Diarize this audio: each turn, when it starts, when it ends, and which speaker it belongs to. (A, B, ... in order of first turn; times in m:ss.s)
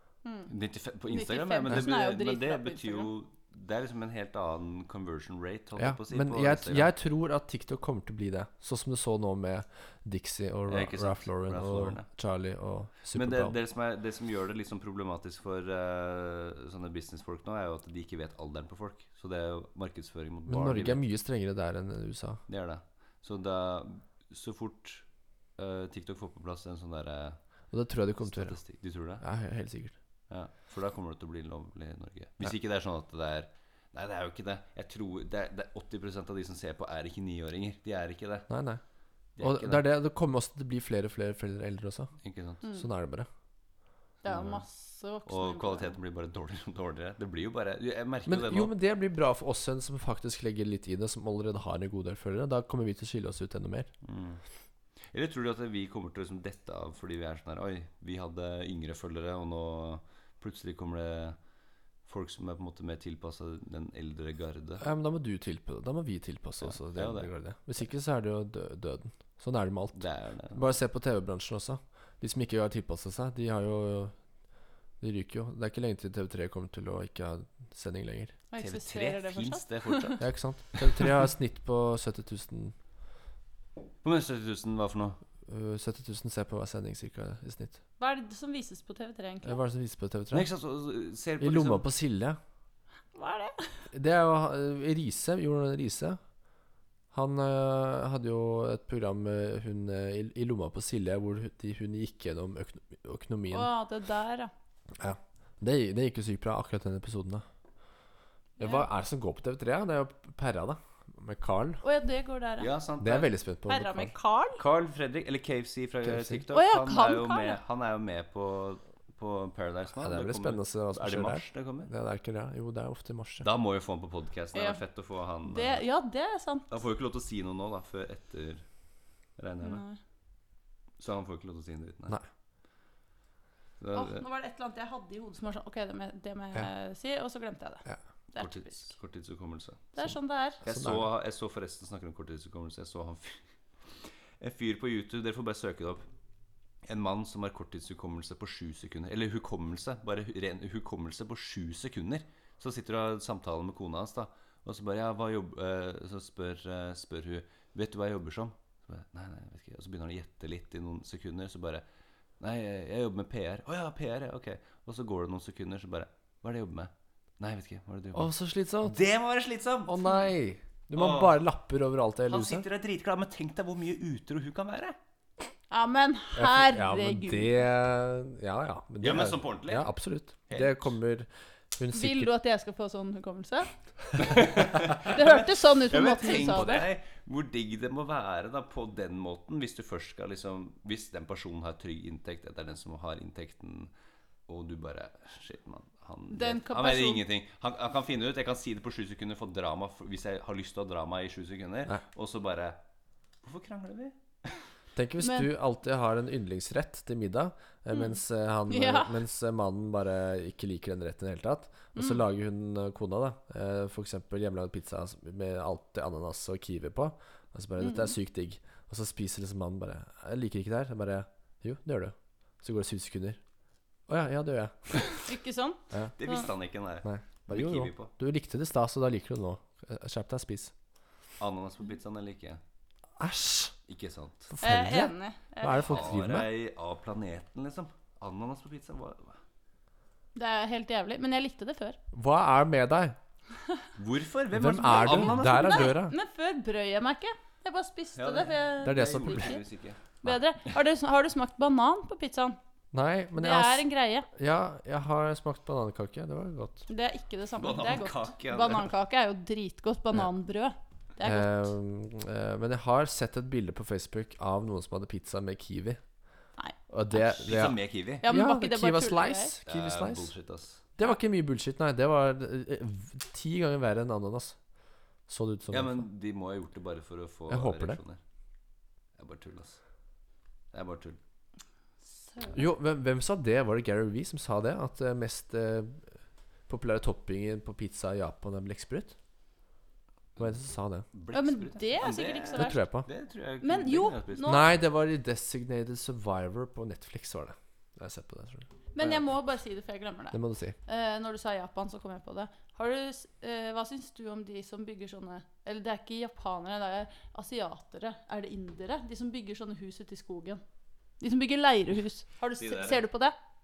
0:00.2-0:00.5 A
0:00.5-0:06.9 B
0:01.1-0:03.1 A
0:05.8-0:13.6 C
0:10.7-0:12.1 B
0:13.1-0:21.0 B
0:20.5-0:22.4 C
0:22.5-0:25.0 B
0:25.6-0:27.4 B
0:27.7-0:28.6 C
0:28.2-0:29.2 B
0:29.2-0:30.0 C
0:30.3-0:38.5 B
0:38.5-0:38.8 C
0:39.4-0:39.8 B
0:39.4-0:42.1 C
0:42.2-0:42.6 B
0:42.7-0:43.3 C
0:44.2-0:46.0 A
0:44.3-0:44.6 B
0:45.3-0:48.7 B
0:48.3-0:53.9 C
0:54.0-0:54.4 B
0:55.1-1:01.4 B
1:02.1-1:04.8 B
1:04.8-1:14.2 C
1:06.6-1:07.3 B
1:10.0-1:10.6 B
1:15.0-1:18.4 C
1:18.5-1:20.2 A
1:18.6-1:21.1 B
1:20.2-1:22.8 C
1:24.0-1:25.2 B
1:25.5-1:27.8 C
1:28.0-1:29.6 A
1:29.4-1:30.5 C
1:30.3-1:31.9 B
1:31.4-1:32.4 C
1:33.2-1:33.8 A
1:33.9-1:36.2 C
1:37.1-1:43.7 C
1:43.5-1:44.5 A
1:45.0-1:47.4 C
1:48.6-1:51.8 C
1:48.6-1:48.9 A
1:51.8-1:52.7 A
1:52.6-1:53.3 B
1:53.0-1:54.1 C
1:53.7-1:54.6 A
1:54.6-2:01.9 B
1:56.0-1:56.4 C
1:56.5-1:57.6 A
2:00.0-2:03.5 C
2:03.4-2:05.8 B
2:04.5-2:04.8 A
2:05.5-2:06.7 A
2:06.7-2:08.6 B
2:09.4-2:09.8 B
2:09.6-2:10.0 A
2:11.0-2:12.2 B
2:13.8-2:14.2 B
2:13.9-2:18.9 A
2:18.4-2:19.9 B
2:19.9-2:20.6 A
2:20.6-2:23.4 B
2:20.6-2:21.1 C
2:24.4-2:26.0 B
2:26.8-2:41.8 B
2:42.4-2:48.3 B
2:48.1-2:49.0 C
2:48.8-2:50.0 B
2:49.9-2:52.6 C
2:50.9-2:51.4 B
2:52.3-2:55.0 B
2:55.7-2:57.6 A
2:56.4-3:02.3 C
2:59.0-2:59.9 B
3:00.5-3:00.9 B
3:01.9-3:03.7 A
3:04.2-3:13.9 B
3:04.9-3:06.9 A
3:14.5-3:22.8 B
3:16.3-3:17.2 A
3:23.4-3:24.2 B
3:25.0-3:43.4 C
3:25.2-3:25.5 A
3:28.7-3:29.1 A
3:32.0-3:32.2 A
3:37.8-3:38.1 A
3:44.1-3:45.2 C
3:45.1-3:46.5 A
3:46.2-3:48.1 B
3:47.0-3:50.7 C
3:51.4-3:52.6 B
3:53.2-3:53.8 C
3:53.9-3:54.5 B
3:54.5-3:56.5 C
3:54.6-3:56.1 A
3:55.7-3:59.4 B
4:00.4-4:02.0 A
4:02.1-4:03.2 C
4:04.0-4:06.0 B
4:04.5-4:06.2 C
4:04.9-4:09.6 A
4:08.2-4:10.2 B
4:08.8-4:09.6 C
4:10.2-4:12.6 A
4:12.9-4:16.8 C
4:13.4-4:14.3 A
4:16.9-4:21.7 A
4:17.6-4:18.9 B
4:21.2-4:26.0 C
4:26.9-4:30.3 C
4:27.2-4:28.3 B
4:28.2-4:29.6 A
4:29.7-4:30.9 B
4:31.0-4:34.6 C
4:35.3-4:36.1 C
4:35.7-4:38.2 B
4:37.5-4:38.0 C
4:39.2-4:39.8 B
4:40.7-4:41.2 B
4:42.1-4:42.6 A
4:42.5-4:46.2 C
4:46.7-4:49.2 C
4:50.4-4:51.1 C
4:51.1-4:54.6 B
4:51.3-4:52.8 A
4:52.6-4:53.1 C
4:53.6-4:54.7 A
4:54.5-4:59.2 C
4:58.9-5:10.6 A
5:00.3-5:00.8 C
5:11.2-5:13.4 A
5:12.6-5:13.0 B